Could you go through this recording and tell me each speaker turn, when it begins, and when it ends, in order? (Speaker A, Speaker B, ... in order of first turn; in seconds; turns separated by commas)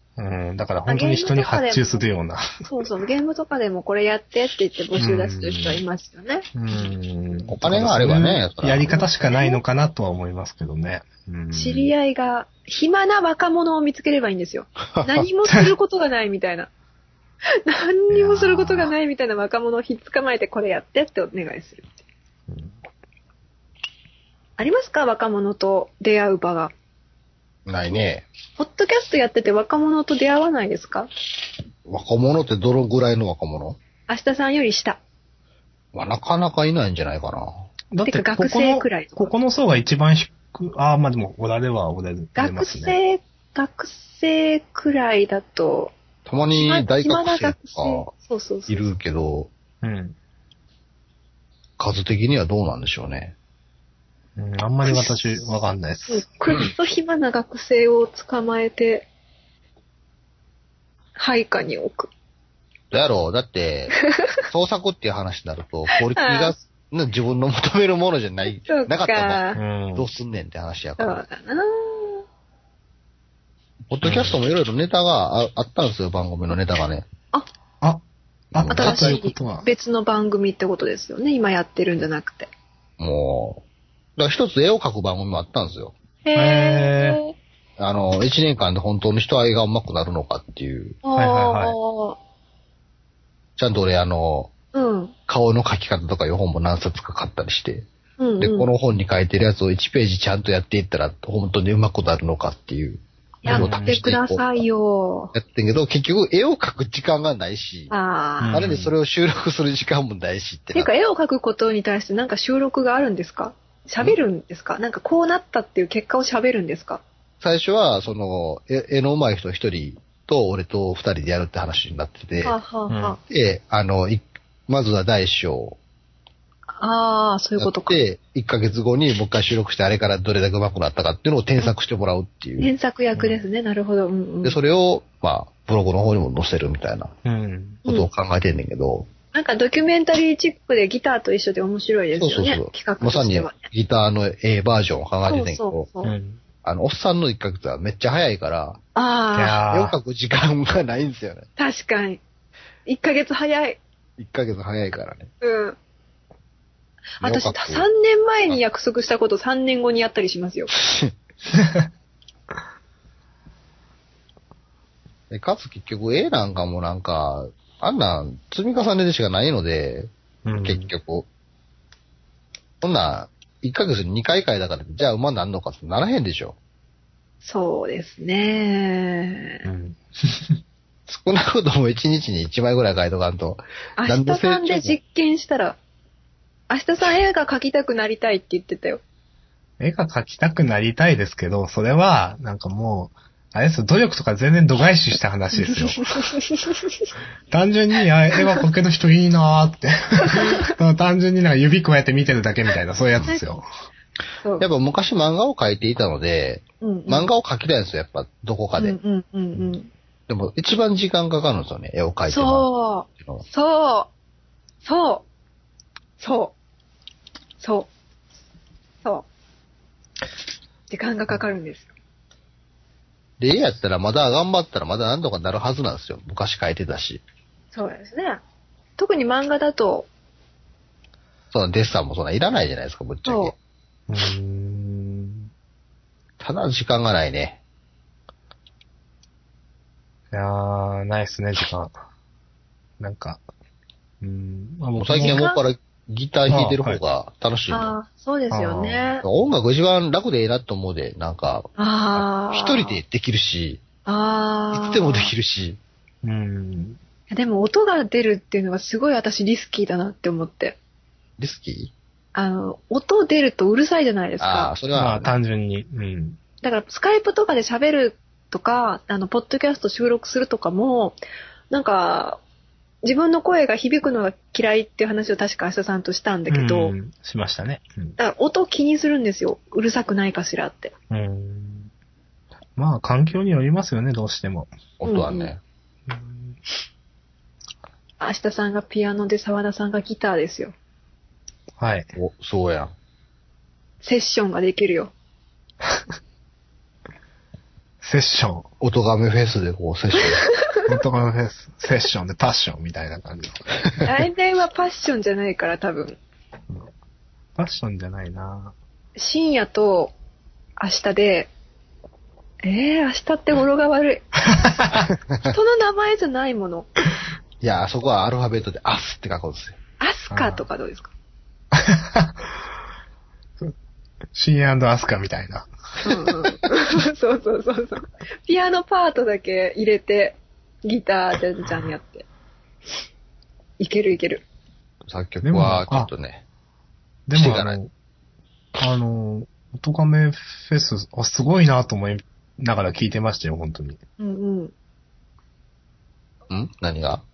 Speaker A: 0.2-2.6, Speaker B: 0.9-2.0, Speaker B: 2.6-6.9, Speaker A: 5.0-5.8, Speaker A: 6.5-11.9, Speaker C: 7.5-9.0, Speaker B: 9.0-9.6, Speaker B: 11.5-16.7, Speaker C: 14.9-15.2, Speaker B: 17.6-21.9, Speaker A: 18.1-18.9, Speaker A: 22.5-22.8, Speaker B: 24.6-26.7, Speaker C: 27.6-28.3, Speaker B: 28.6-31.1, Speaker C: 31.9-33.8, Speaker B: 34.1-35.0, Speaker C: 35.9-37.5, Speaker A: 37.9-43.0, Speaker B: 38.1-39.3, Speaker B: 42.4-45.9, Speaker C: 46.2-48.1, Speaker B: 46.6-48.9, Speaker C: 48.7-49.5, Speaker A: 49.8-50.1, Speaker C: 51.8-53.4, Speaker A: 54.4-56.3, Speaker B: 54.9-55.4, Speaker B: 56.1-59.1, Speaker B: 61.1-62.1, Speaker C: 62.9-64.0, Speaker B: 64.0-64.4, Speaker C: 64.5-69.4, Speaker B: 66.0-66.5, Speaker B: 68.6-69.6, Speaker A: 69.5-70.1, Speaker C: 70.0-71.2, Speaker B: 71.0-72.2, Speaker C: 73.9-77.1, Speaker A: 74.0-74.3, Speaker A: 77.8-79.7, Speaker C: 78.5-79.2, Speaker B: 78.7-82.5, Speaker C: 83.0-83.6, Speaker C: 84.2-85.9, Speaker B: 86.2-87.3, Speaker A: 86.3-87.2, Speaker C: 87.8-91.0, Speaker B: 91.0-92.2, Speaker A: 91.1-91.8, Speaker C: 93.6-94.5, Speaker B: 94.7-95.1, Speaker C: 95.3-97.9, Speaker B: 98.2-98.7, Speaker C: 98.4-104.6, Speaker B: 103.4-105.3, Speaker A: 103.5-104.0, Speaker C: 105.3-107.9, Speaker B: 107.9-108.6, Speaker A: 108.4-108.9, Speaker C: 108.5-110.9, Speaker B: 110.7-117.0, Speaker C: 117.4-122.6, Speaker B: 122.4-123.2, Speaker A: 122.9-123.2, Speaker C: 123.2-125.8, Speaker B: 126.8-128.0, Speaker C: 127.6-132.7, Speaker B: 132.6-134.6, Speaker A: 133.2-133.4, Speaker C: 134.4-137.1, Speaker A: 137.2-137.8, Speaker C: 137.8-139.1, Speaker B: 139.3-143.6, Speaker C: 142.2-145.9, Speaker B: 145.2-146.1, Speaker A: 146.0-146.4, Speaker C: 146.6-148.8, Speaker B: 148.9-149.6, Speaker A: 149.3-149.9, Speaker C: 149.7-151.4, Speaker B: 151.6-152.2, Speaker B: 152.8-153.8, Speaker C: 154.2-155.3, Speaker B: 155.4-155.8, Speaker B: 157.2-160.7, Speaker C: 157.2-157.8, Speaker C: 160.8-161.1, Speaker A: 161.5-161.9, Speaker C: 165.3-170.1, Speaker A: 170.4-170.9, Speaker C: 170.6-171.3, Speaker C: 172.8-176.6, Speaker B: 177.4-179.6, Speaker A: 179.6-180.0, Speaker C: 181.1-185.0, Speaker B: 184.0-185.8, Speaker B: 186.7-189.0, Speaker A: 189.8-196.1, Speaker B: 195.6-196.9, Speaker A: 197.5-203.6, Speaker B: 200.3-200.7, Speaker B: 204.4-204.7, Speaker C: 204.6-209.0, Speaker B: 206.8-207.3, Speaker B: 208.8-209.9, Speaker C: 210.3-212.7, Speaker B: 212.3-214.1, Speaker B: 214.8-215.2, Speaker B: 216.2-216.5, Speaker B: 217.6-217.9, Speaker B: 220.9-221.9, Speaker C: 223.4-227.2, Speaker B: 227.7-228.4, Speaker B: 229.0-230.1, Speaker C: 231.5-233.5, Speaker B: 233.2-233.5, Speaker A: 234.1-235.5, Speaker C: 236.4-237.6, Speaker A: 240.3-242.0, Speaker A: 243.0-243.4, Speaker A: 244.2-245.4, Speaker C: 245.0-247.9, Speaker B: 245.1-245.6, Speaker A: 246.5-247.0, Speaker B: 247.7-249.2, Speaker A: 248.5-249.1, Speaker C: 249.2-253.8, Speaker B: 251.8-253.0, Speaker B: 254.1-255.3, Speaker C: 254.7-255.8, Speaker A: 256.2-257.0, Speaker B: 257.3-260.8, Speaker C: 261.4-261.9, Speaker B: 262.3-264.7, Speaker C: 264.4-265.3, Speaker A: 264.9-266.4, Speaker B: 266.6-271.2, Speaker B: 271.7-272.4, Speaker B: 273.0-276.9, Speaker A: 276.5-278.2, Speaker B: 278.2-280.9, Speaker A: 281.1-281.9, Speaker A: 282.8-284.7, Speaker C: 285.0-285.6, Speaker B: 285.0-285.5, Speaker A: 286.1-286.6, Speaker B: 288.2-290.7, Speaker A: 291.8-292.1, Speaker C: 292.1-292.9, Speaker B: 294.0-295.1, Speaker A: 298.0-298.7, Speaker C: 298.8-300.4, Speaker B: 300.4-300.8, Speaker A: 300.9-303.7, Speaker B: 304.0-306.2, Speaker A: 307.6-308.8, Speaker B: 309.1-310.1, Speaker B: 310.8-311.5, Speaker B: 312.6-314.4, Speaker A: 314.4-315.1, Speaker C: 315.1-315.5, Speaker B: 315.4-316.9, Speaker C: 317.6-319.8, Speaker B: 320.0-321.1, Speaker A: 320.3-320.6, Speaker A: 321.7-322.4, Speaker A: 324.3-326.3, Speaker B: 326.0-332.2, Speaker B: 333.8-334.4, Speaker C: 335.1-336.4, Speaker A: 335.4-336.1, Speaker A: 337.3-337.9, Speaker C: 337.3-337.8, Speaker A: 338.8-344.0, Speaker B: 344.2-344.7, Speaker C: 346.5-347.2